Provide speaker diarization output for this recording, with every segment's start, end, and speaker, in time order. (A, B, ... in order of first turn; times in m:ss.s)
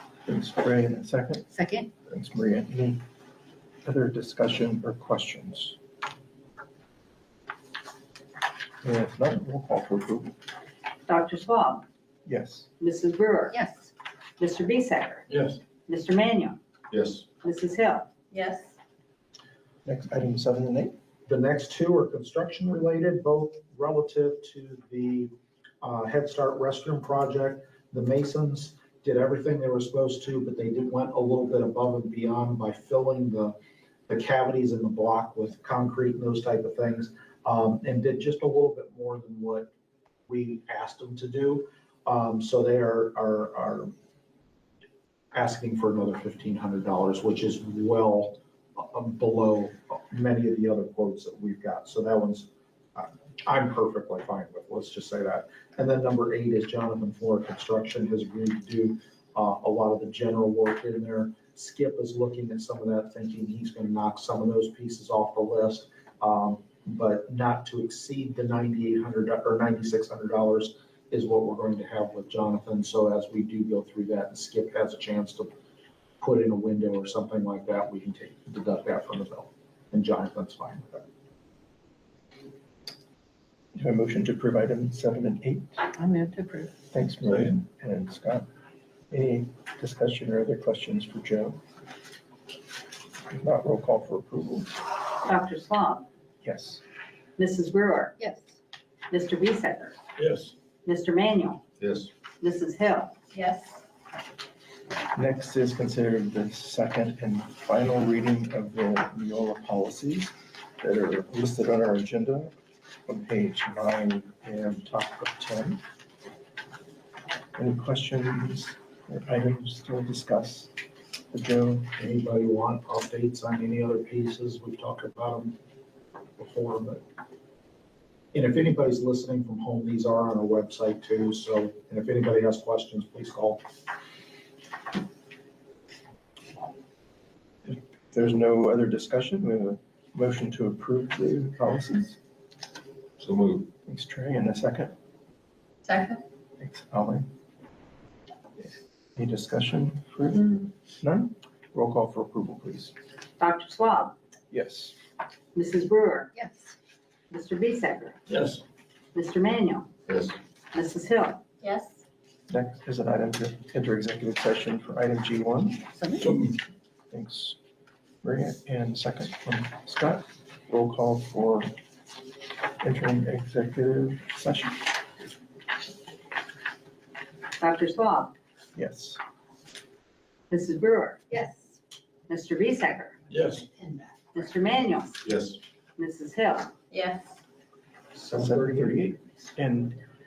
0:00.3-0:01.5 A
0:01.5-0:01.9 B
0:02.1-0:03.0 A
0:03.8-0:05.8 A
0:08.8-0:10.3 A
0:11.1-0:11.8 C
0:12.3-0:12.7 A
0:12.8-0:13.6 C
0:13.6-0:13.9 B
0:14.4-0:15.3 C
0:15.3-0:15.6 D
0:15.9-0:16.6 C
0:16.9-0:17.3 D
0:17.4-0:18.1 C
0:18.3-0:18.7 B
0:19.8-0:21.0 A
0:21.3-0:33.6 E
0:34.1-0:39.7 E
0:40.3-0:43.9 E
0:45.3-1:15.5 E
1:16.2-1:21.0 E
1:23.8-1:25.9 A
1:26.0-1:26.6 C
1:26.9-1:28.5 A
1:29.1-1:31.6 A
1:33.3-1:34.7 A
1:35.2-1:36.1 C
1:36.4-1:36.8 A
1:37.4-1:38.2 C
1:39.1-1:40.0 C
1:40.2-1:40.5 D
1:40.8-1:41.6 C
1:41.8-1:42.1 D
1:42.4-1:43.2 C
1:43.3-1:43.8 B
1:45.1-1:52.5 A
1:53.1-1:55.8 A
1:57.6-2:00.7 A
2:01.3-2:01.9 A
2:02.0-2:05.6 E
2:06.4-2:07.0 E
2:08.3-2:13.6 E
2:17.6-2:22.2 A
2:23.2-2:23.7 D
2:23.9-2:24.9 A
2:25.8-2:26.2 B
2:26.6-2:27.3 A
2:28.6-2:33.0 A
2:33.4-2:34.2 C
2:34.5-2:35.0 A
2:35.5-2:36.3 C
2:36.4-2:36.7 B
2:37.3-2:38.2 C
2:38.3-2:38.6 D
2:39.1-2:39.9 C
2:40.1-2:40.4 D
2:40.7-2:41.4 C
2:41.6-2:42.0 B
2:42.5-2:45.9 A
2:46.0-2:46.3 B
2:46.2-2:46.6 D
2:47.1-2:47.6 A
2:48.2-2:51.7 A
2:52.8-2:54.8 A
2:57.6-2:58.3 C
2:58.8-2:59.2 A
3:00.5-3:01.2 C
3:01.3-3:01.7 B
3:02.3-3:03.2 C
3:03.3-3:03.7 D
3:04.3-3:05.2 C
3:05.2-3:05.6 D
3:06.0-3:06.7 C
3:06.9-3:07.3 B
3:08.1-3:09.2 E
3:08.4-3:10.0 A